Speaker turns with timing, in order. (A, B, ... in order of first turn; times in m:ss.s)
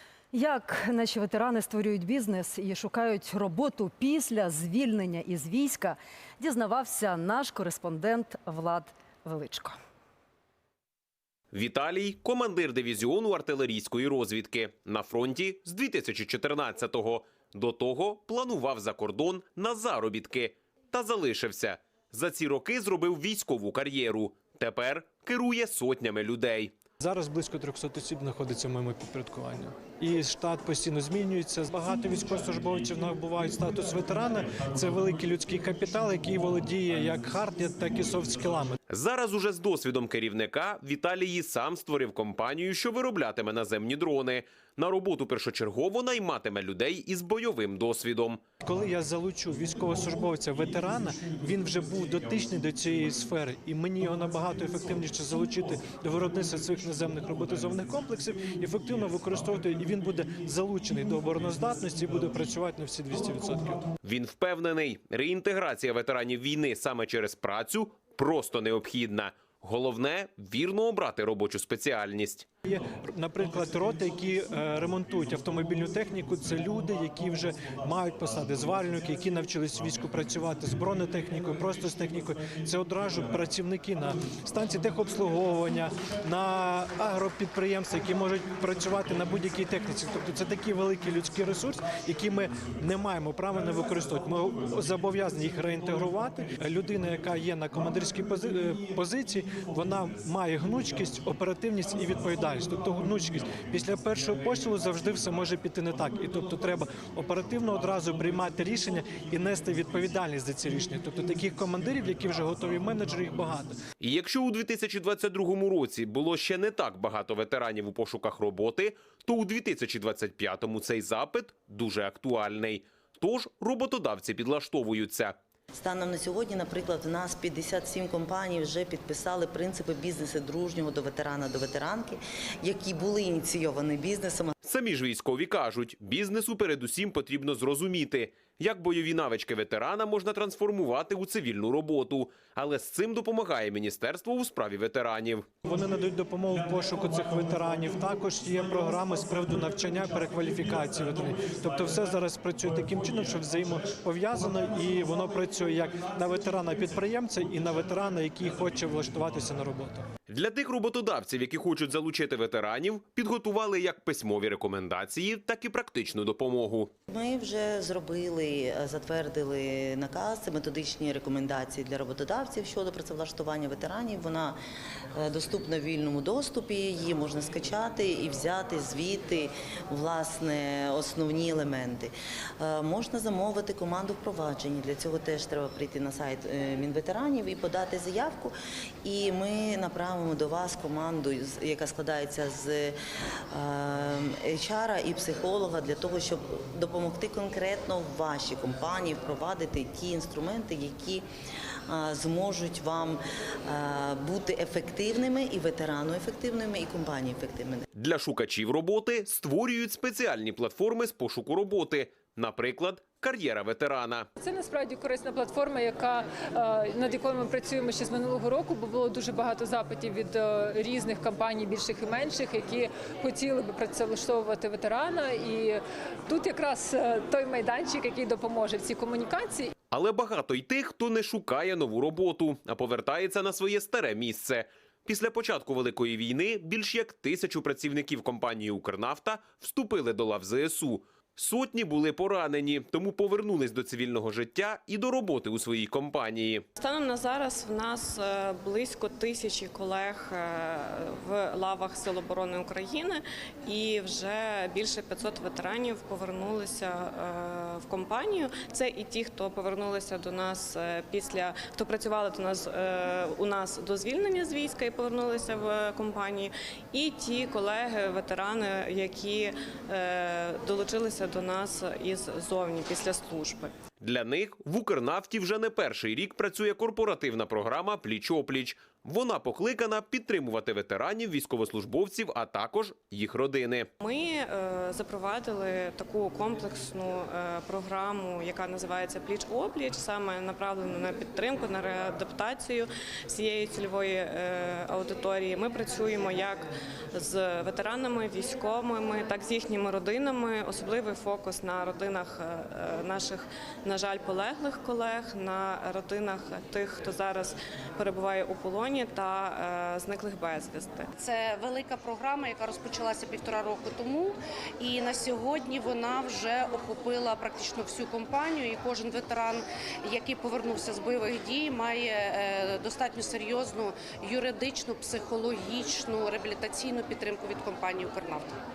0:00.3-0:09.8 A
0:11.5-0:26.7 B
0:27.0-0:38.8 C
0:38.9-0:48.4 B
0:48.6-1:03.8 C
1:04.0-1:12.5 B
1:12.6-1:53.7 C
1:54.0-2:05.4 B
2:05.7-2:14.5 D
2:14.6-2:25.5 B
2:25.6-2:40.0 C
2:40.3-2:46.9 B
2:47.1-2:54.6 D
2:55.1-3:12.9 D
3:13.5-3:21.2 D
3:21.9-3:27.8 D
3:27.9-3:34.3 B
3:34.4-3:49.7 E
3:49.9-4:06.6 B
4:06.8-4:33.7 F
4:34.0-4:43.9 B
4:44.0-5:11.1 F
5:11.2-5:28.6 G